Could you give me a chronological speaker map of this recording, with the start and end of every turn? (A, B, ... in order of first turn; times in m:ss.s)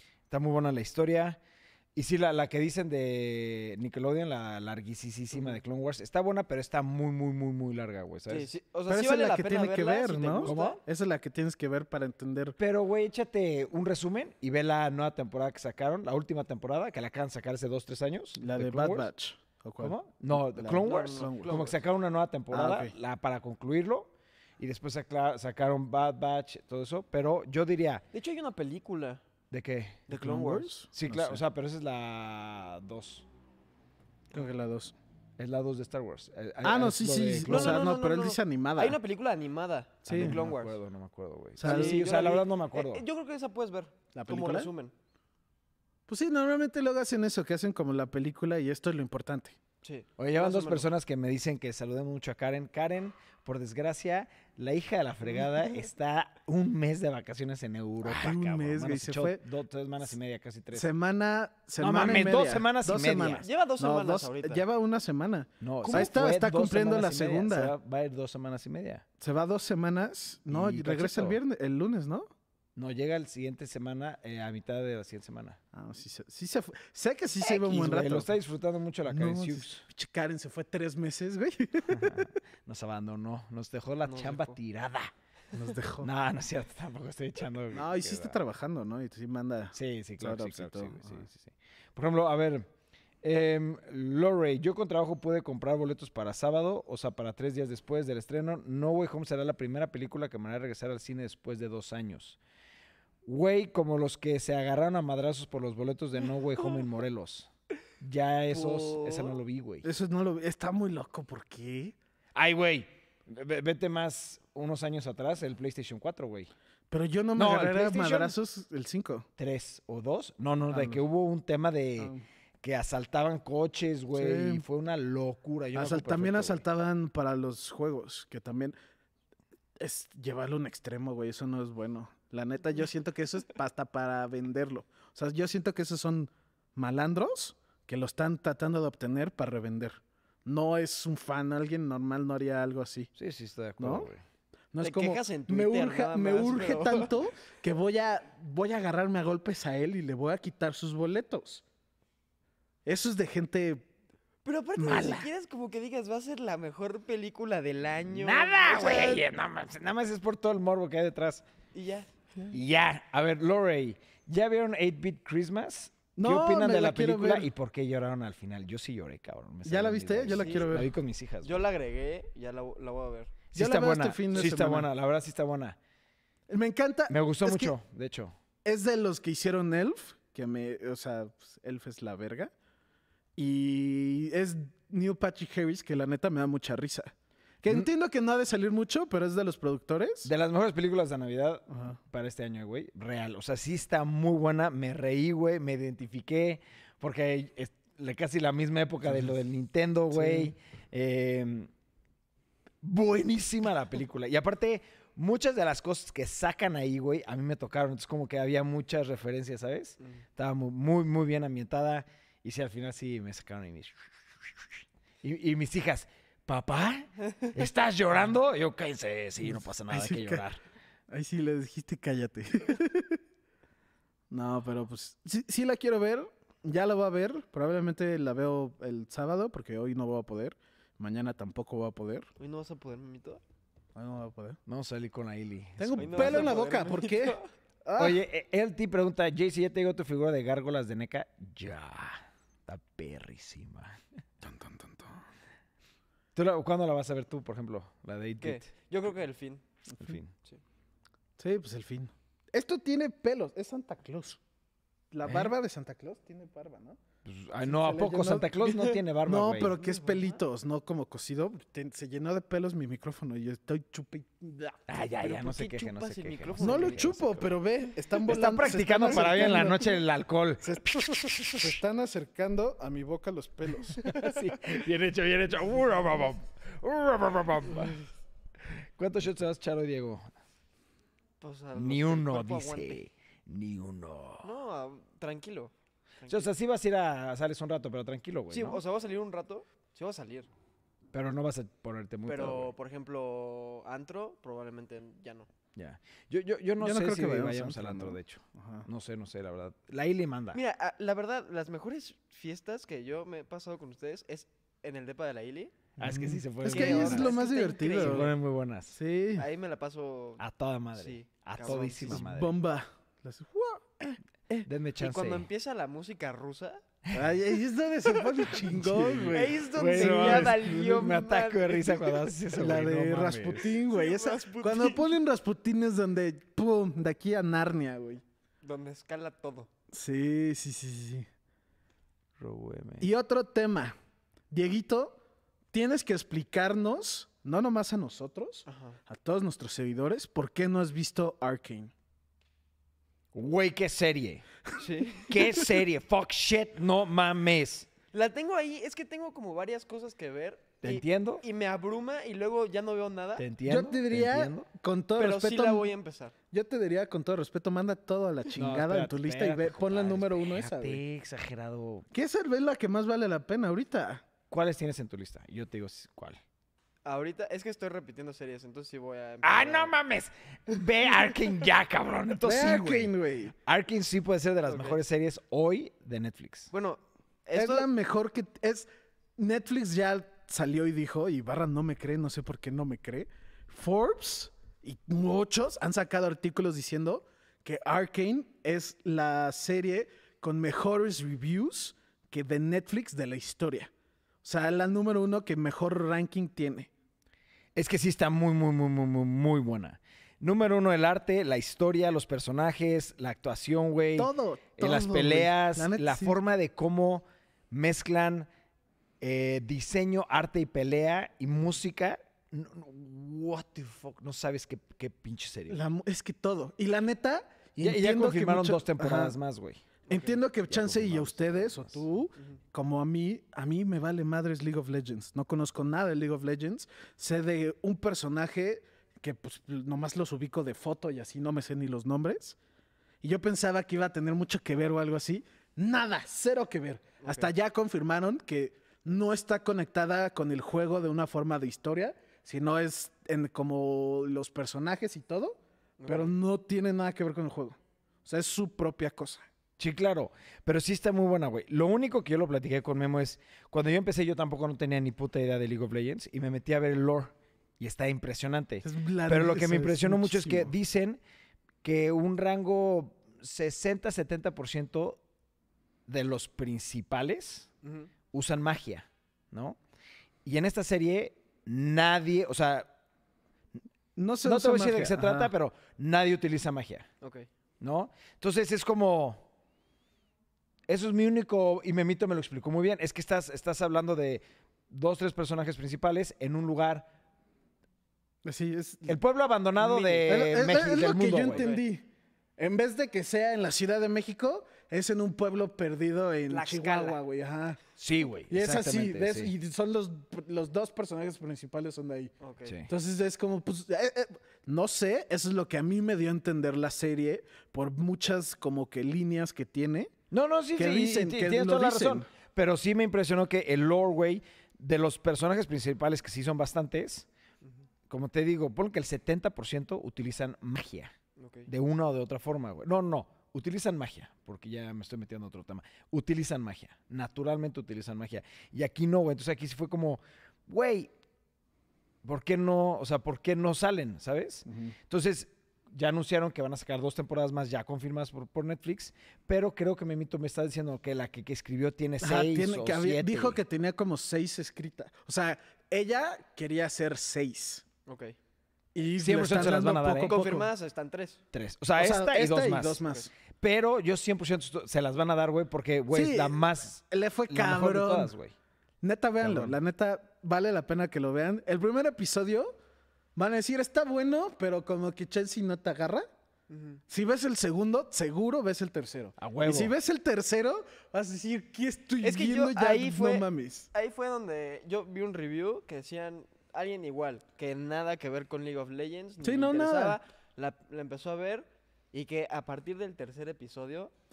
0:00.3-0:01.4 A
0:01.9-0:08.5 A
0:05.3-0:05.6 B
0:08.3-0:10.8 B
0:08.9-0:12.6 C
0:10.4-0:10.8 A
0:12.6-0:19.1 A
0:18.4-0:21.7 C
0:19.8-0:28.0 A
0:20.8-0:21.8 B
0:22.5-0:22.9 C
0:28.1-0:29.2 B
0:29.5-0:30.1 A
0:30.1-0:30.7 B
0:30.1-0:31.4 C
0:30.9-0:33.2 A
0:34.3-0:34.9 C
0:35.4-0:37.9 A
0:36.6-0:39.0 C
0:37.4-0:40.8 B
0:40.0-0:40.4 C
0:40.1-0:43.0 A
0:41.6-0:42.0 C
0:41.6-0:44.9 B
0:44.1-0:44.7 C
0:46.1-0:49.6 C
0:49.8-0:50.9 B
0:50.2-1:00.9 A
0:58.0-0:59.4 C
1:00.7-1:07.7 C
1:01.8-1:03.4 A
1:03.4-1:04.6 B
1:05.6-1:09.0 A
1:05.8-1:06.1 B
1:09.2-1:12.3 C
1:10.5-1:11.4 A
1:12.8-1:15.6 A
1:15.7-1:18.3 C
1:17.4-1:19.8 A
1:19.0-1:22.2 C
1:21.9-1:25.1 A
1:24.0-1:24.6 B
1:25.5-1:26.1 C
1:26.0-1:28.4 A
1:27.7-1:31.2 C
1:29.7-1:32.7 A
1:33.2-1:42.4 A
1:43.2-1:47.5 A
1:48.0-1:49.8 A
1:48.5-1:49.4 B
1:49.8-1:52.0 C
1:52.3-1:56.5 A
1:56.9-1:59.2 C
1:57.4-1:58.3 A
1:59.4-2:06.6 A
2:00.7-2:01.0 C
2:04.1-2:04.6 C
2:05.7-2:08.7 C
2:09.8-2:23.1 C
2:23.2-2:24.2 A
2:23.8-2:24.1 C
2:24.7-2:31.6 C
2:24.8-2:27.1 B
2:32.8-2:33.9 C
2:34.4-2:39.2 B
2:34.8-2:35.1 C
2:34.9-2:35.2 A
2:38.1-2:41.4 A
2:41.7-2:42.1 B
2:42.5-2:51.6 A
2:46.2-2:47.5 C
2:49.6-2:50.9 C
2:50.3-2:50.8 B
2:51.4-2:53.3 B
2:53.5-2:55.8 A
2:53.5-2:54.9 C
2:56.5-2:57.7 C
2:57.1-2:58.3 A
2:58.6-3:02.5 C
3:03.4-3:10.3 C
3:10.2-3:21.7 A
3:11.7-3:12.0 C
3:19.0-3:19.3 C
3:20.1-3:20.5 C
3:22.8-3:34.0 A
3:35.2-3:40.6 A
3:39.4-3:40.4 C
3:41.1-3:43.2 C
3:44.3-3:52.3 C
3:52.4-3:53.4 B
3:53.9-3:54.6 C
3:54.7-3:56.5 A
3:55.8-3:58.2 C
3:56.0-3:57.5 B
3:58.0-4:04.0 A
4:04.4-4:05.2 C
4:06.3-4:08.6 A
4:08.4-4:09.6 B
4:10.0-4:10.3 A
4:11.4-4:14.4 C
4:15.1-4:17.0 C
4:15.2-4:15.5 A
4:17.2-4:19.8 A
4:17.6-4:24.8 C
4:19.7-4:20.4 B
4:24.9-4:27.6 A
4:25.2-4:27.1 B
4:26.6-4:29.9 C
4:28.2-4:31.7 A
4:30.6-4:34.0 C
4:34.0-4:38.0 A
4:34.0-4:34.3 B
4:38.7-4:40.2 A
4:41.4-4:43.0 B
4:41.7-4:44.5 A
4:44.4-4:46.5 B
4:46.3-4:48.8 A
4:48.5-4:50.5 B
4:51.1-4:52.7 A
4:52.2-4:55.5 B
4:55.8-5:00.6 A
4:56.8-4:58.9 C
5:00.5-5:05.7 B
5:06.0-5:08.3 C
5:06.0-5:07.4 A
5:06.6-5:08.3 B
5:08.0-5:09.0 A
5:08.9-5:09.4 C
5:09.3-5:10.4 B
5:10.4-5:12.5 A
5:10.9-5:12.2 B
5:12.0-5:13.9 C
5:14.6-5:15.5 A
5:15.0-5:16.8 B
5:17.1-5:20.7 C
5:18.6-5:23.7 A
5:19.3-5:22.3 B
5:22.5-5:28.2 C
5:23.8-5:25.1 B
5:28.6-5:29.7 B
5:29.9-5:31.3 C
5:32.4-5:33.1 A
5:33.0-5:33.9 C
5:34.5-5:35.2 C
5:35.7-5:41.9 C
5:38.6-5:39.0 B
5:43.3-5:44.4 A
5:44.8-5:45.3 B
5:45.2-5:47.9 A
5:48.1-5:53.4 B
5:50.8-5:51.4 A
5:53.4-5:54.7 A
5:53.6-5:55.9 C
5:55.2-5:56.3 B
5:56.5-6:01.0 C
5:58.5-6:02.0 A
6:02.1-6:04.2 C
6:04.5-6:06.4 A
6:07.0-6:09.9 B
6:09.4-6:13.1 A
6:12.4-6:13.5 C
6:13.6-6:16.7 A
6:14.7-6:15.0 B
6:16.7-6:17.9 B
6:17.5-6:33.9 C
6:34.4-6:36.9 C
6:37.7-6:48.5 A
6:44.2-6:46.4 C
6:49.2-6:55.8 A
6:55.7-6:59.4 C
6:57.8-6:59.8 A
7:00.1-7:00.4 B
7:00.1-7:12.6 C
7:00.7-7:02.0 A
7:13.2-7:29.4 C
7:17.2-7:17.5 B
7:26.0-7:26.3 B
7:29.8-7:41.2 A
7:38.8-7:40.7 C
7:41.8-7:45.2 A
7:46.1-7:47.7 A
7:47.8-7:48.1 B
7:48.3-7:49.8 A
7:50.4-7:52.9 A
7:54.2-7:55.5 C
7:54.4-7:57.1 A
7:57.2-7:57.5 B
7:57.8-7:59.4 A
8:00.9-8:07.1 A
8:08.4-8:09.2 C
8:09.1-8:11.7 A
8:09.8-8:10.3 B
8:10.2-8:17.8 C
8:11.5-8:11.8 B
8:16.5-8:17.2 B
8:18.0-8:19.5 A
8:18.5-8:22.3 C
8:22.4-8:22.8 B
8:22.6-8:22.9 A
8:22.9-8:30.1 C
8:30.3-8:37.3 A
8:30.8-8:32.3 C
8:38.1-8:41.1 A
8:41.4-8:41.7 B
8:41.7-8:51.1 A
8:52.2-9:03.6 A
8:54.6-8:54.9 C
9:02.2-9:07.8 C
9:08.0-9:08.4 B
9:08.9-9:10.7 C
9:09.2-9:10.4 A
9:10.2-9:11.4 B
9:11.5-9:13.0 A
9:12.0-9:13.3 C
9:13.6-9:18.5 A
9:16.1-9:18.3 C
9:19.0-9:22.7 C
9:19.4-9:19.8 A
9:23.3-9:26.2 C
9:26.7-9:27.0 B
9:27.1-9:33.9 C
9:29.4-9:29.9 A
9:32.2-9:44.1 B
9:39.4-9:40.2 C